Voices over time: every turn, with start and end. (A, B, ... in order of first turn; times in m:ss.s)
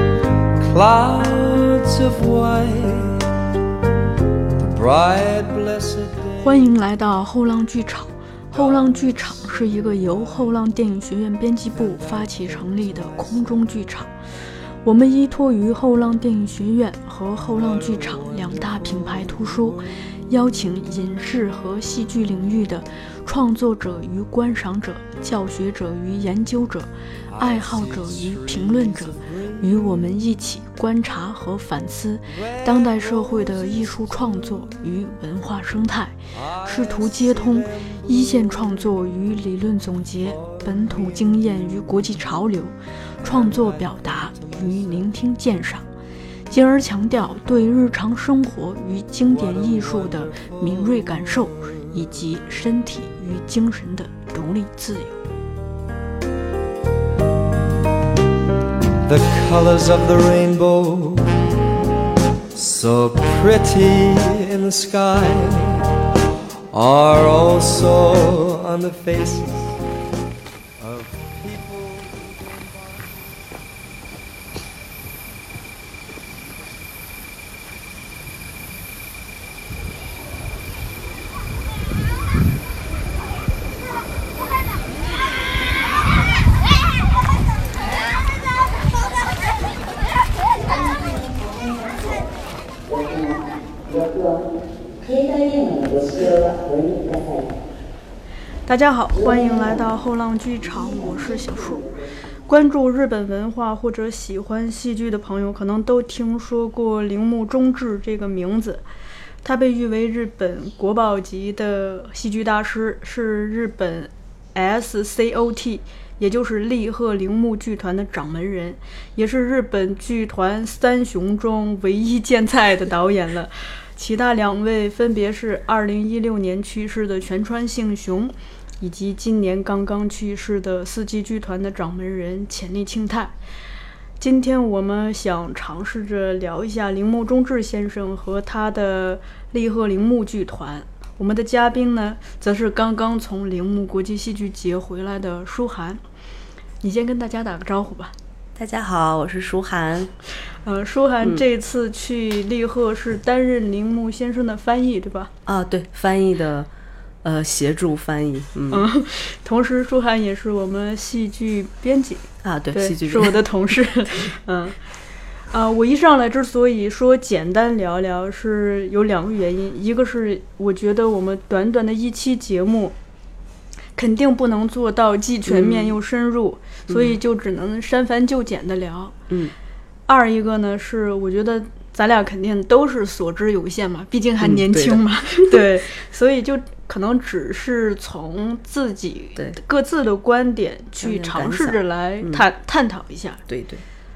0:00.6-0:03.2 A
0:04.6-0:06.7 A
0:06.4-0:14.1 B
0:08.5-0:10.5 A
0:11.8-0:13.5 A
0:14.8-0:45.9 B
0:17.6-0:19.9 A
0:27.3-0:29.8 A
0:32.5-0:34.6 A
0:36.4-0:38.9 A
0:40.4-0:42.1 A
0:43.2-0:44.9 A
0:46.5-0:55.2 B
0:49.4-0:51.7 A
0:59.0-1:01.4 A
1:02.5-1:05.9 A
1:06.7-1:09.8 A
1:10.8-1:13.0 A
1:38.7-1:41.9 B
1:42.5-1:48.8 B
1:49.4-2:13.3 B
2:14.2-2:26.0 B
2:26.8-2:28.1 B
2:28.6-2:30.1 C
2:30.6-2:35.3 B
2:35.5-2:36.7 C
2:37.2-2:38.9 C
2:38.7-2:44.8 B
2:42.4-2:43.4 C
2:45.5-2:52.9 B
2:54.0-2:59.2 B
2:55.5-2:56.0 C
2:56.9-2:57.2 C
2:59.3-2:59.5 C
3:00.1-3:13.4 B
3:04.4-3:05.6 C
3:11.0-3:12.5 C
3:13.5-3:13.8 C